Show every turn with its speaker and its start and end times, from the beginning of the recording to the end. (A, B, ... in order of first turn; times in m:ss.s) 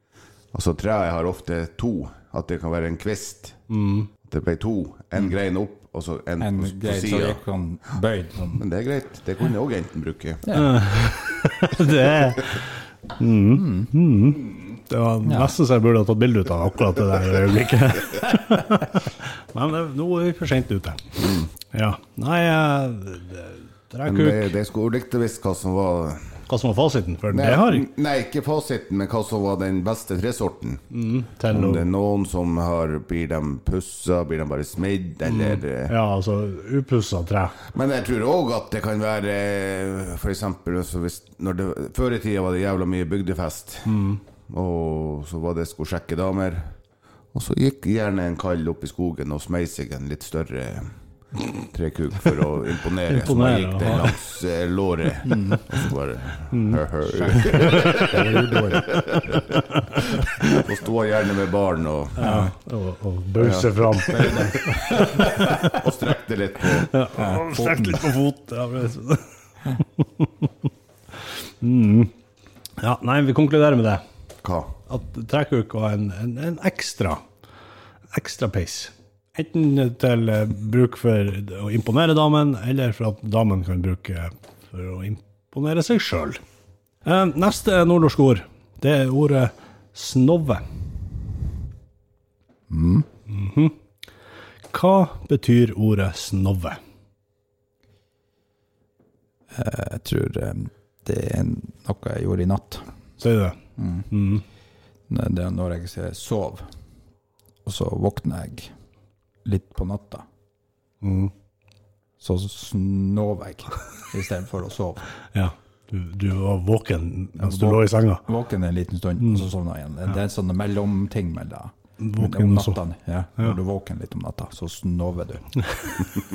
0:00.5-0:03.6 A
0:03.7-0:04.1 B
0:04.2-0:07.4 A
0:06.4-0:08.6 C
0:08.5-0:10.5 A
0:10.4-0:10.8 C
0:10.5-0:24.5 B
0:13.5-0:13.9 C
0:15.2-0:15.5 C
0:21.2-0:21.5 A
0:24.0-0:26.4 A
0:26.5-0:27.9 B
0:27.3-0:30.8 A
0:30.9-0:31.8 B
0:31.5-0:35.9 A
0:35.3-0:37.6 B
0:37.7-0:46.7 A
0:43.8-0:44.2 B
0:47.3-0:50.9 A
0:51.7-0:59.6 A
0:53.1-0:54.1 B
0:55.2-0:55.6 C
0:56.5-0:56.8 B
0:57.1-0:59.0 C
0:57.3-0:58.5 B
0:59.5-1:00.6 B
1:00.4-1:02.3 A
1:02.2-1:05.6 B
1:02.2-1:02.5 C
1:03.4-1:06.9 A
1:04.1-1:05.8 C
1:06.7-1:10.5 B
1:07.1-1:08.1 C
1:11.6-1:12.1 B
1:12.8-1:14.0 B
1:14.4-1:14.8 A
1:14.9-1:17.2 B
1:18.1-1:26.4 B
1:27.0-1:30.6 B
1:32.7-1:33.0 C
1:33.3-1:33.8 B
1:34.7-1:36.8 B
1:39.5-1:42.8 C
1:43.2-1:43.6 B
1:43.8-1:44.1 C
1:44.1-1:44.4 B
1:45.1-1:46.7 C
1:47.6-1:48.7 C
1:49.4-1:50.2 C
1:51.0-1:51.3 B
1:52.2-1:55.0 C
1:55.3-1:58.2 B
1:57.4-2:05.6 C
2:02.0-2:02.8 B
2:05.6-2:06.0 B